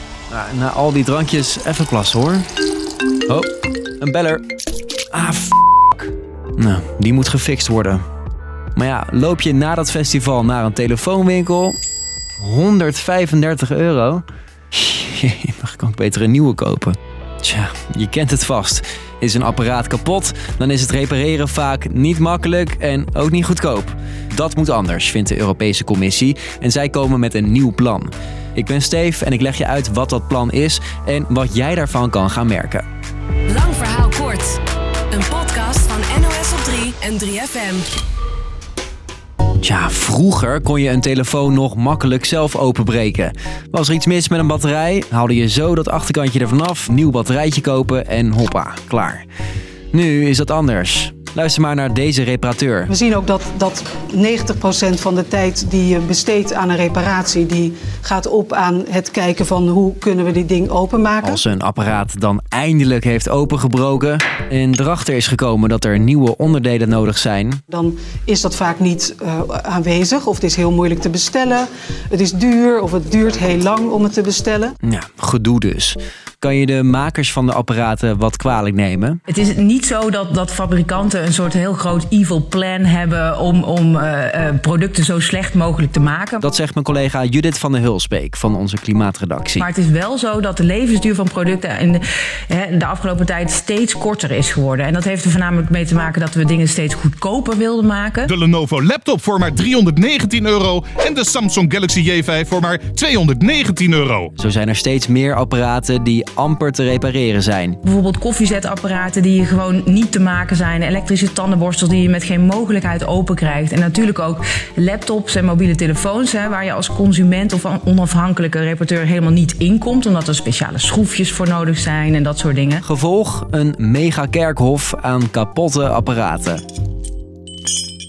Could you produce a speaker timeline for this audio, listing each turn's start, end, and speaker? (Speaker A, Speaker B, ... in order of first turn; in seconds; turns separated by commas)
Speaker A: 0.3-2.5, Speaker A: 4.0-4.4, Speaker A: 5.1-8.0, Speaker A: 8.8-11.8, Speaker A: 12.4-32.9, Speaker B: 33.5-34.6, Speaker B: 35.1-37.9, Speaker A: 39.6-49.2, Speaker A: 49.9-52.9, Speaker C: 52.9-61.4, Speaker A: 61.2-67.6, Speaker C: 67.7-71.6, Speaker C: 72.1-74.7, Speaker A: 74.8-79.2, Speaker D: 79.3-86.4, Speaker A: 86.4-89.7, Speaker D: 89.6-98.3, Speaker E: 98.3-104.3, Speaker A: 104.4-107.8, Speaker D: 107.9-122.8, Speaker A: 122.8-126.6